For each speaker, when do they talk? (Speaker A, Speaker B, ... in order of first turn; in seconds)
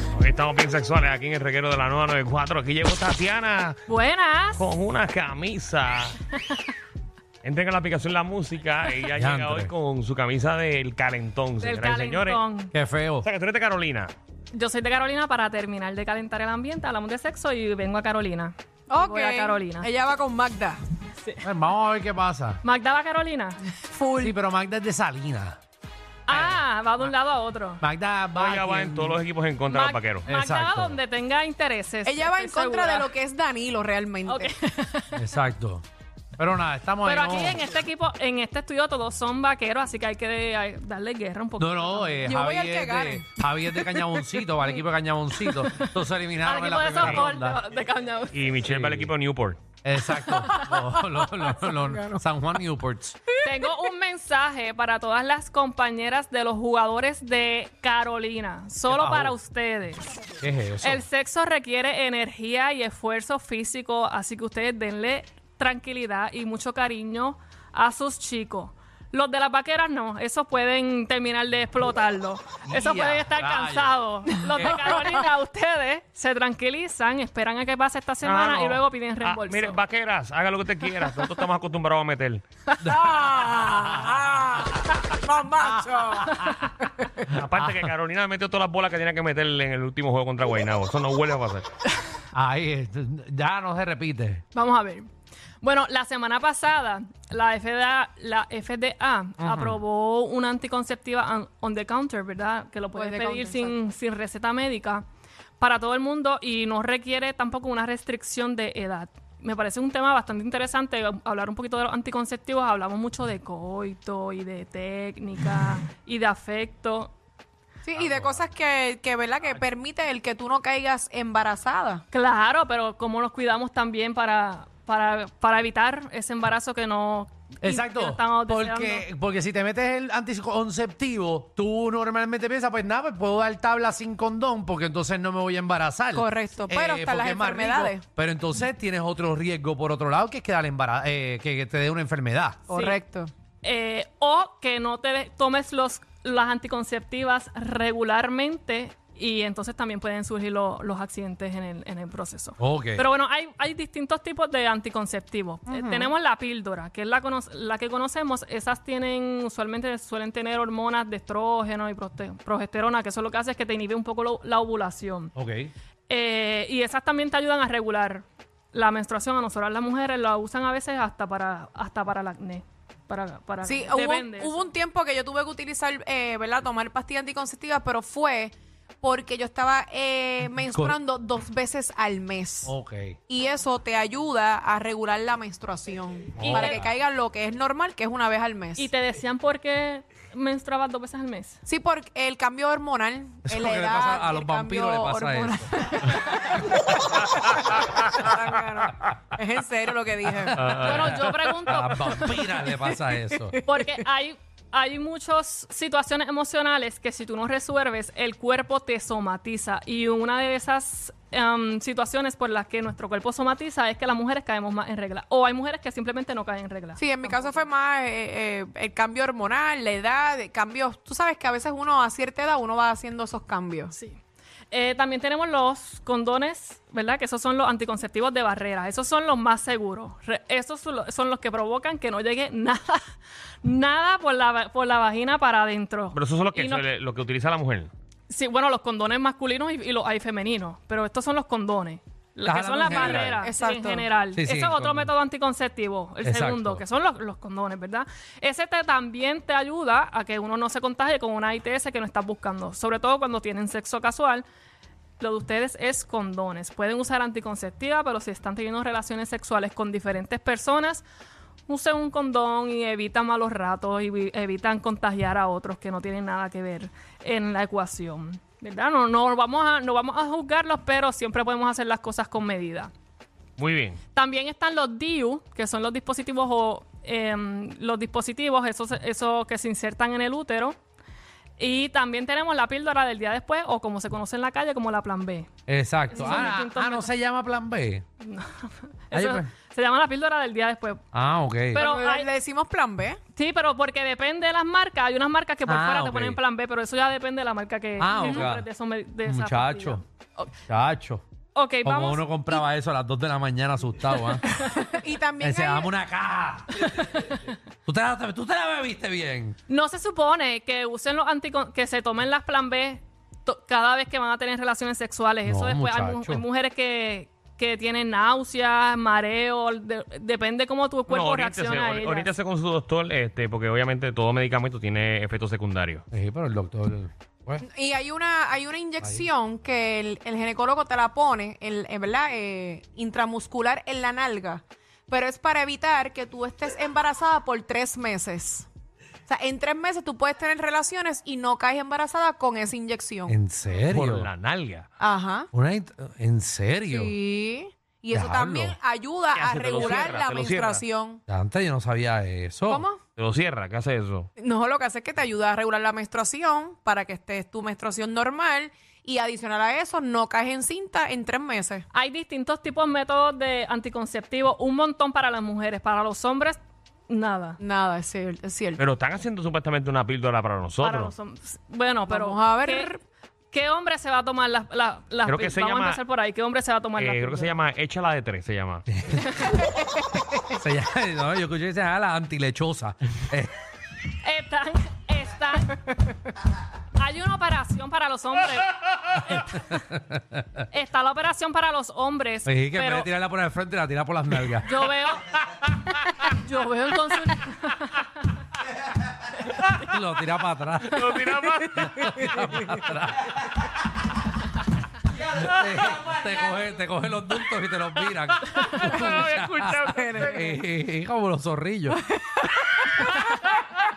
Speaker A: 0.1-3.8, 4.5-6.2, 7.4-12.4, 13.2-14.1, 28.3-30.2, 48.3-49.6, 78.2-82.4, 87.3-91.7, 200.5-201.2, 236.1-237.9, 273.6-274.0, 321.1-326.0, 343.9-344.9, 349.3-350.8, 353.1-354.3, 368.8-371.1, 375.2-376.0, 377.0-378.9, 400.8-402.1, 408.3-410.2
Speaker B: 3.9-4.7, 11.6-12.7, 14.5-19.9, 21.2-21.4, 22.6-23.6, 26.3-27.8, 29.7-33.1, 34.3-35.2, 37.0-42.3, 46.4-48.5, 50.2-50.8, 53.4-60.1, 60.8-79.8, 94.5-95.1, 95.6-105.0, 105.6-117.1, 122.1-129.0, 142.7-143.0, 143.6-165.3, 166.1-174.6, 186.4-186.8, 188.8-191.6, 200.8-202.4, 203.7-217.7, 223.9-224.2, 224.7-233.0, 233.6-236.8, 238.3-254.4, 255.2-261.0, 261.7-272.9, 274.1-280.8, 281.6-285.5, 286.1-287.1, 288.2-291.0, 291.7-292.3, 293.3-300.5, 301.5-302.6, 309.7-322.3, 361.9-367.6, 370.8-372.9, 373.5-377.5, 384.2-385.9, 387.0-389.8, 390.7-393.1, 394.6-395.4, 396.2-398.1
Speaker C: 9.1-9.7, 12.7-13.2, 21.4-22.6, 24.2-25.6, 26.3-27.1, 27.8-29.2, 30.3-31.0, 35.1-35.8, 36.4-37.6, 41.6-47.6, 48.6-49.1, 49.8-53.2, 58.9-59.4, 60.4-61.0, 72.6-74.0, 74.6-74.9, 82.8-84.9, 85.6-86.7, 87.3-87.9, 92.3-94.4, 99.4-99.8, 117.9-118.4, 127.6-142.6, 152.6-153.0, 165.3-165.7, 180.7-180.9, 182.7-183.2, 186.3-186.9, 193.4-195.7, 200.9-203.6, 242.4-243.4, 244.3-245.1, 246.2-246.8, 285.7-288.0, 289.1-289.5, 291.1-291.9, 295.6-296.4, 298.0-298.6, 299.2-300.0, 300.7-301.2, 301.8-304.4, 305.4-307.2, 307.8-309.6, 315.4-316.4, 326.1-327.6, 343.3-344.3, 345.5-347.1, 348.1-348.8, 351.3-352.9, 378.9-379.5, 380.5-383.5, 389.3-390.4, 392.4-394.9, 399.7-403.4, 405.3-412.0
Speaker D: 18.9-20.8, 23.8-24.4, 32.0-34.5, 42.2-44.3, 51.7-52.2, 82.9-87.2, 102.9-103.8, 117.8-122.0, 136.1-138.0, 142.7-143.3, 155.7-156.1, 173.6-182.7, 183.3-188.9, 191.7-201.0, 202.4-202.7, 203.5-203.8, 217.0-223.9, 242.8-244.1, 291.7-293.2, 298.1-298.5, 304.6-305.9, 327.6-338.7, 339.3-343.4, 345.0-345.5, 346.8-351.2, 352.7-353.0, 354.4-361.8, 367.6-368.8, 372.1-373.0, 379.6-380.2, 401.8-402.8, 408.8-409.2, 409.8-410.6, 411.9-413.5